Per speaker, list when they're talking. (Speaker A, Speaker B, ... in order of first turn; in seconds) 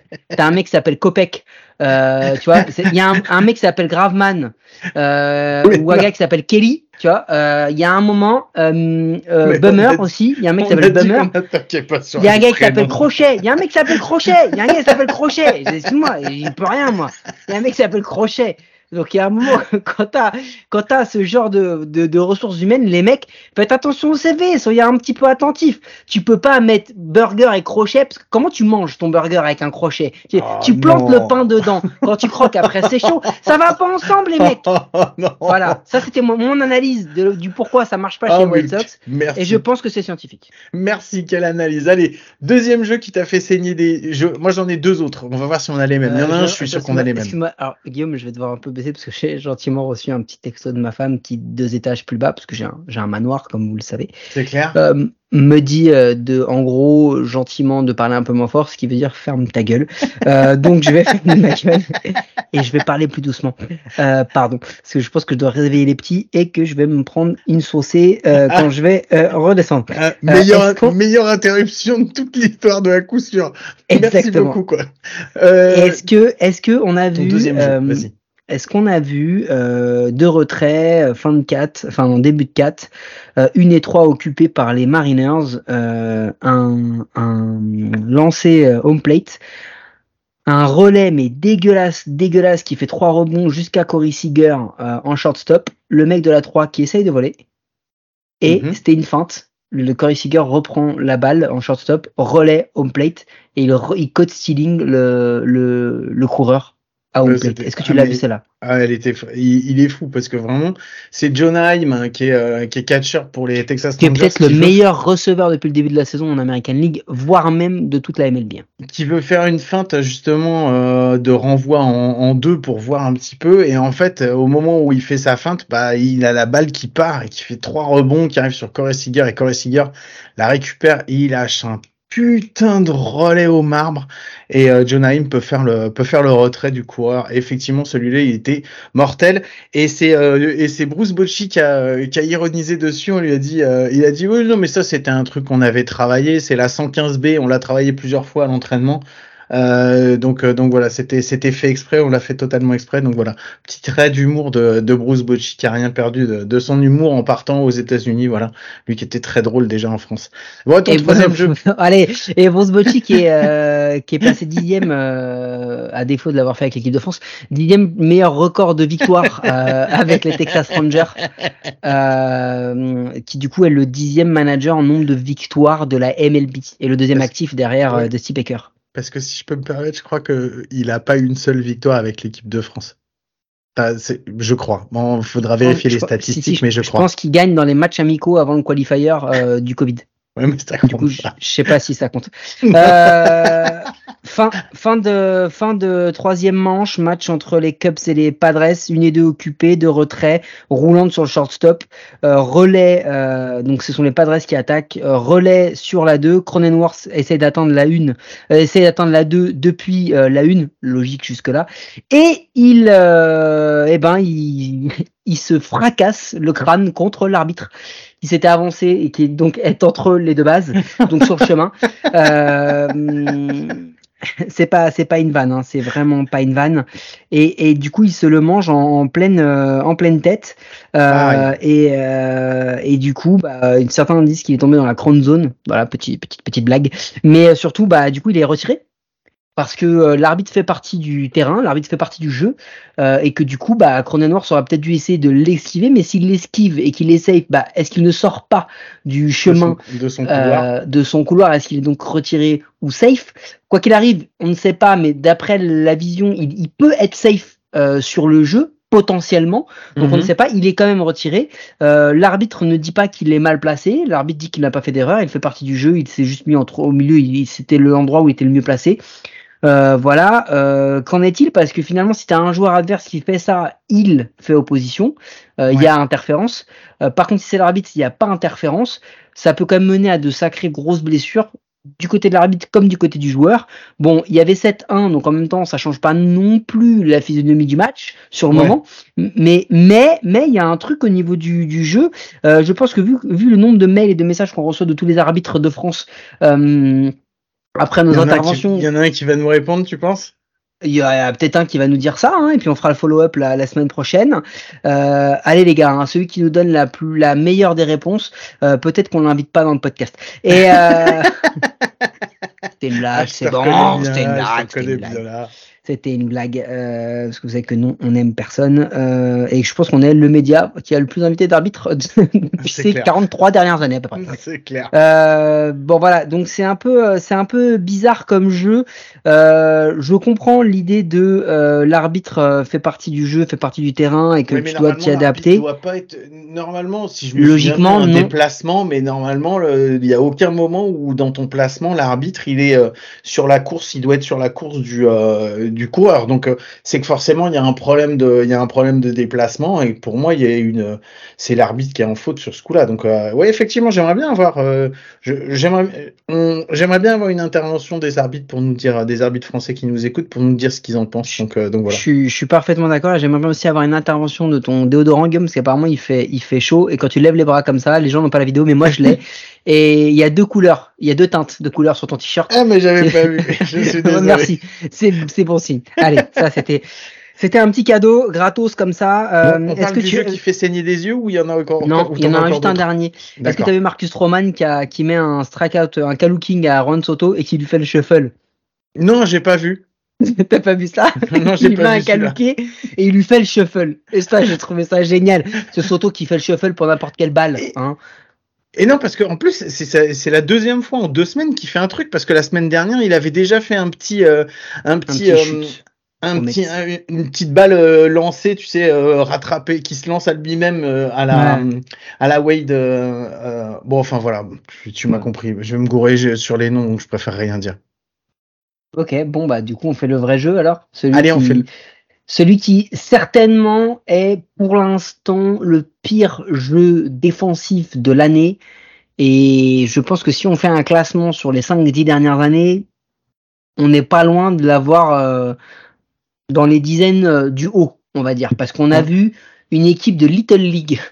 Speaker A: 0.3-11.3, 12.2-34.6, 35.5-40.5, 46.1-54.1, 54.7-70.9, 73.9-74.6, 75.7-89.4, 90.5-97.4, 98.4-108.4, 114.0-118.6, 160.9-171.2, 171.8-178.7, 185.6-190.1, 190.8-223.9, 224.4-238.8, 239.6-269.0, 269.6-297.1, 297.8-298.9, 300.8-311.4, 312.8-315.2, 315.9-324.3, 324.9-335.6, 337.4-338.3, 361.9-376.9, 377.4-380.4, 381.8-388.3, 390.2-398.0, 405.1-405.8, 406.4-406.6, 411.3-411.6, 418.9-421.7, 422.3-428.6, 429.2-432.9, 433.8-435.6, 436.5-441.0
Speaker B: 5.7-6.0, 9.4-10.1, 10.6-13.0, 30.4-31.4, 31.9-33.4, 34.4-35.8, 38.2-39.6, 40.7-47.4, 54.3-54.8, 69.9-74.9, 75.4-76.0, 77.1-78.1, 98.5-98.8, 107.2-114.8, 118.8-161.6, 178.9-182.9, 183.8-187.1, 190.4-191.3, 192.7-193.8, 231.1-231.5, 249.4-250.7, 260.0-260.3, 298.1-300.3, 310.7-312.1, 313.1-315.5, 322.6-323.1, 324.1-324.9, 334.5-362.0, 372.5-374.5, 379.4-382.8, 383.4-383.7, 389.0-389.8, 391.2-392.4, 398.8-417.8, 421.1-421.6